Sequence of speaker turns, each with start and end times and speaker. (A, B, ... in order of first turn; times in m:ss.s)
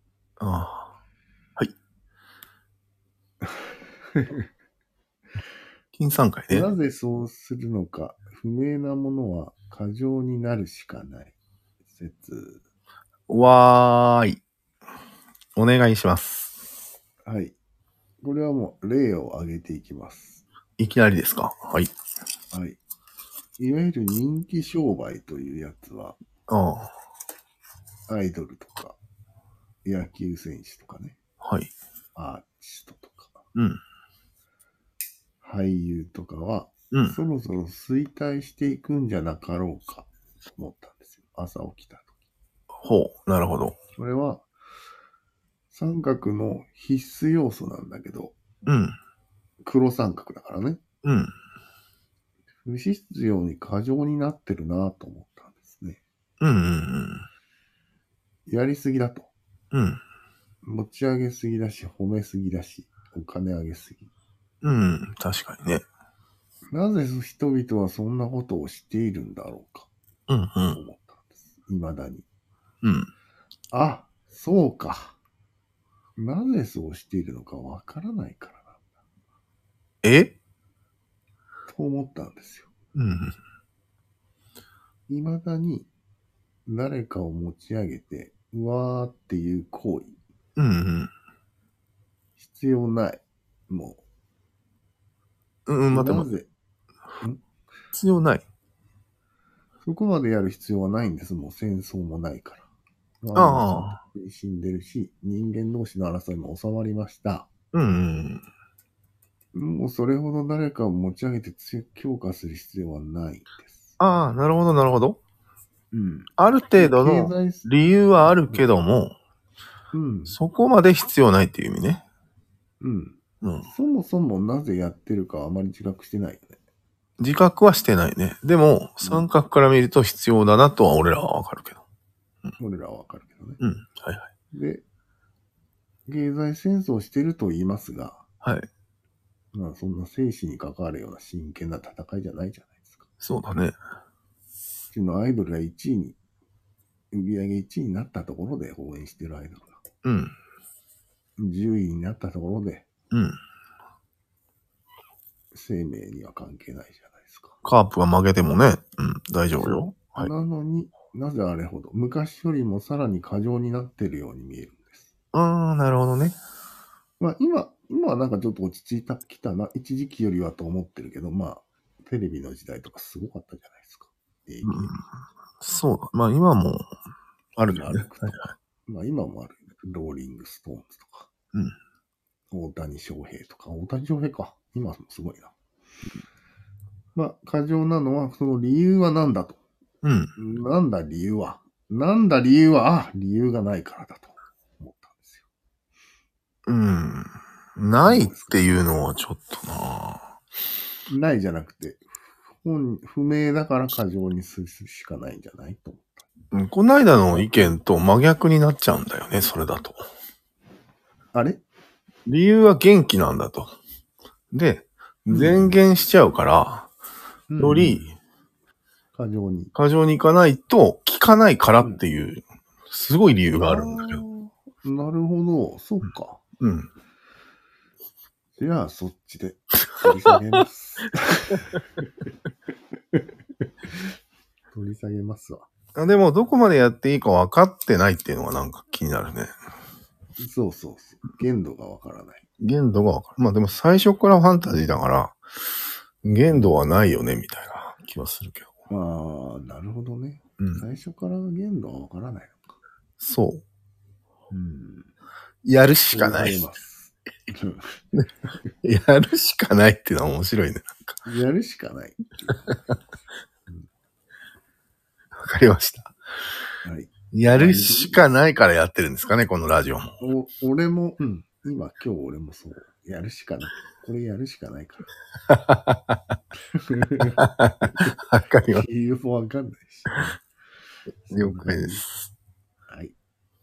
0:00.4-0:00.9 A
0:04.1-0:04.4 B
0:05.9-0:06.7 A
0:06.5-0:11.4 B
0:11.9-0:12.6 B
0:13.3-0:14.4 A
0:15.6-0:16.5 A
0:17.2-0:17.6 B
0:18.2-0:20.4 B
0:20.8-0:21.9 A
0:22.5-0:22.8 B
0:23.6-0:26.2 B
0:26.5-0:26.9 A
0:28.1-0:29.0 B
0:29.8-0:31.2 B
0:31.4-0:31.7 A
0:32.1-0:33.4 B
0:33.5-0:33.8 A
0:35.4-0:42.1 B
0:36.9-0:37.2 A
0:42.8-0:43.8 A
0:44.0-0:44.5 B
0:45.7-0:48.4 B
0:48.6-0:49.0 A
0:49.6-0:50.8 B
0:51.0-0:51.3 A
0:52.6-0:56.0 B
0:56.4-0:57.3 A
0:58.5-0:59.3 B
0:59.7-1:00.0 A
1:00.6-1:04.1 B
1:04.6-1:05.8 A
1:06.7-1:09.9 B
1:10.3-1:10.8 A
1:10.7-1:12.2 B
1:12.8-1:13.1 A
1:13.7-1:15.2 B
1:16.2-1:18.8 B
1:20.0-1:20.3 A
1:21.7-1:22.7 B
1:22.9-1:23.4 A
1:25.1-1:25.9 B
1:26.6-1:30.2 B
1:30.6-1:31.1 A
1:32.4-1:34.0 B
1:35.7-1:36.3 A
1:35.9-1:36.5 B
1:37.9-1:38.4 A
1:39.8-1:42.7 B
1:43.2-1:47.5 B
1:43.3-1:44.0 A
1:47.7-1:48.4 A
1:49.5-1:54.0 B
1:54.0-1:55.2 A
1:55.9-1:58.7 B
1:56.4-1:59.2 A
1:59.9-2:00.4 B
2:00.3-2:02.0 A
2:02.8-2:06.6 B
2:03.4-2:03.7 A
2:07.2-2:11.8 A
2:12.6-2:13.6 B
2:13.6-2:14.3 A
2:14.5-2:14.8 B
2:16.1-2:18.2 B
2:18.4-2:18.7 A
2:19.5-2:23.1 B
2:23.2-2:23.8 A
2:24.9-2:26.2 B
2:27.1-2:29.8 B
2:30.0-2:30.3 A
2:31.4-2:32.9 B
2:33.1-2:33.4 A
2:35.5-2:37.6 B
2:37.6-2:40.3 A
2:39.6-2:45.1 B
2:45.3-2:46.4 A
2:47.2-2:54.9 B
2:54.6-2:55.0 A
2:55.6-2:57.0 A
2:57.6-2:58.5 A
2:57.7-3:01.3 B
3:02.5-3:05.5 B
3:07.1-3:09.6 B
3:10.0-3:10.3 A
3:10.4-3:15.4 B
3:16.7-3:20.3 A
3:18.0-3:18.7 B
3:21.1-3:26.2 B
3:26.5-3:30.0 A
3:31.3-3:31.6 B
3:32.3-3:33.7 A
3:34.5-3:36.9 A
3:35.3-3:35.8 B
3:37.5-3:38.0 B
3:37.6-3:38.1 A
3:39.1-3:39.7 B
3:39.7-3:44.2 A
3:43.6-3:46.4 B
3:46.6-3:46.9 A
3:48.6-3:51.8 B
3:54.7-3:55.7 B
3:55.9-3:59.5 A
4:00.4-4:02.4 B
4:02.6-4:05.4 A
4:06.2-4:08.7 A
4:08.9-4:12.7 B
4:10.6-4:10.8 A
4:13.2-4:13.6 A
4:14.5-4:15.1 B
4:15.6-4:16.6 A
4:16.1-4:17.9 B
4:18.8-4:21.1 A
4:21.2-4:22.7 B
4:25.4-4:26.1 A
4:26.8-4:28.3 B
4:27.3-4:30.1 A
4:30.2-4:35.1 B
4:35.5-4:36.2 A
4:36.7-4:38.1 B
4:37.4-4:38.9 A
4:38.7-4:40.4 B
4:41.3-4:42.0 B
4:41.3-4:42.1 A
4:42.9-4:43.2 B